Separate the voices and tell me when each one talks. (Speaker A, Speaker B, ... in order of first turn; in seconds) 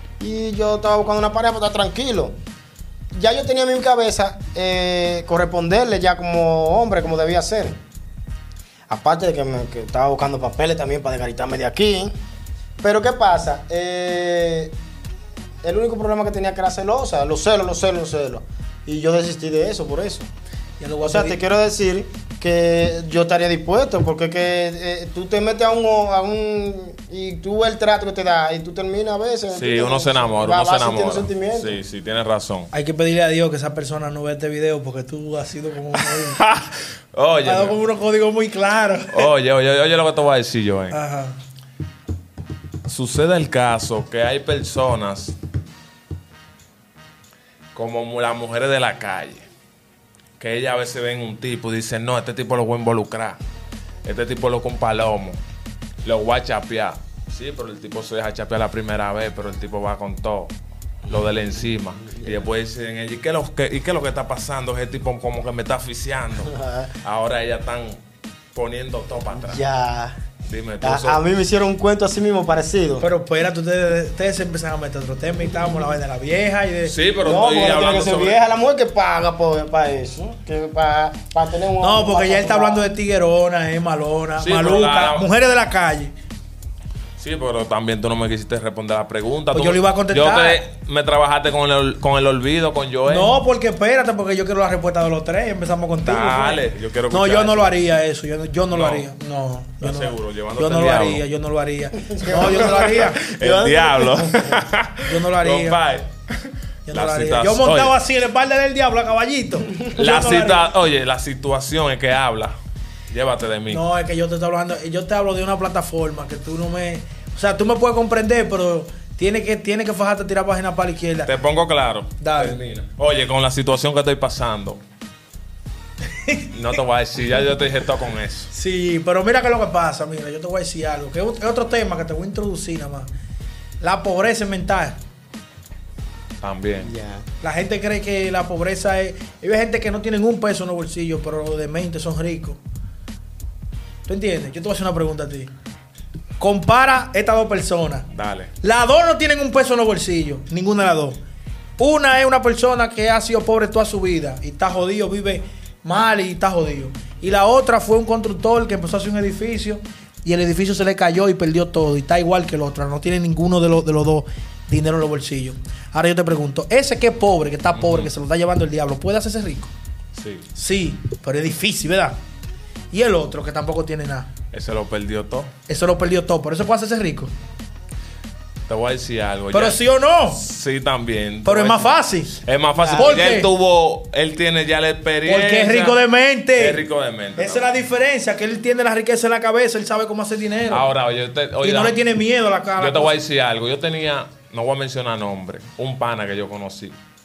Speaker A: 0.2-2.4, 3.1-7.8, 8.9-12.1, 12.8-14.7, 15.6-20.3, 21.0-31.8, 62.1-62.4, 66.5-66.9, 69.3-70.2, 70.8-73.0, 77.2-82.8, 102.1-104.7, 136.8-137.2, 182.7-183.3
Speaker B: 20.8-21.4, 32.7-36.4, 37.4-39.3, 40.9-41.4, 73.0-76.9, 81.8-86.1, 89.5-90.7, 93.1-103.2, 105.0-105.8, 106.9-110.6, 113.7-121.3, 122.2-122.6, 126.1-126.5, 128.5-133.1, 133.8-135.0, 137.4-142.6, 144.1-145.5, 146.4-148.1, 148.6-151.2, 151.8-169.7, 170.5-172.2, 172.9-174.3, 175.7-177.3, 179.5-180.4, 181.4-182.4, 182.9-183.5, 185.2-186.8, 187.4-190.9, 191.6-193.1
Speaker C: 29.5-32.7, 36.0-37.8, 39.1-41.0, 42.9-45.4, 47.7-49.4, 50.4-53.4, 54.0-55.4, 56.0-60.5, 61.1-68.0, 68.5-69.6, 70.4-71.2, 76.8-78.4, 84.4-85.3, 87.2-93.3, 96.0-97.7, 98.7-99.1, 99.8-101.2, 102.7-107.9, 109.9-112.5, 113.1-113.8, 121.2-124.8, 126.5-128.5, 136.4-136.9, 148.1-148.5, 167.7-168.1, 170.1-170.5, 174.5-175.5, 178.7-179.8, 180.3-186.0, 186.6-187.7, 190.7-192.0, 192.8-196.9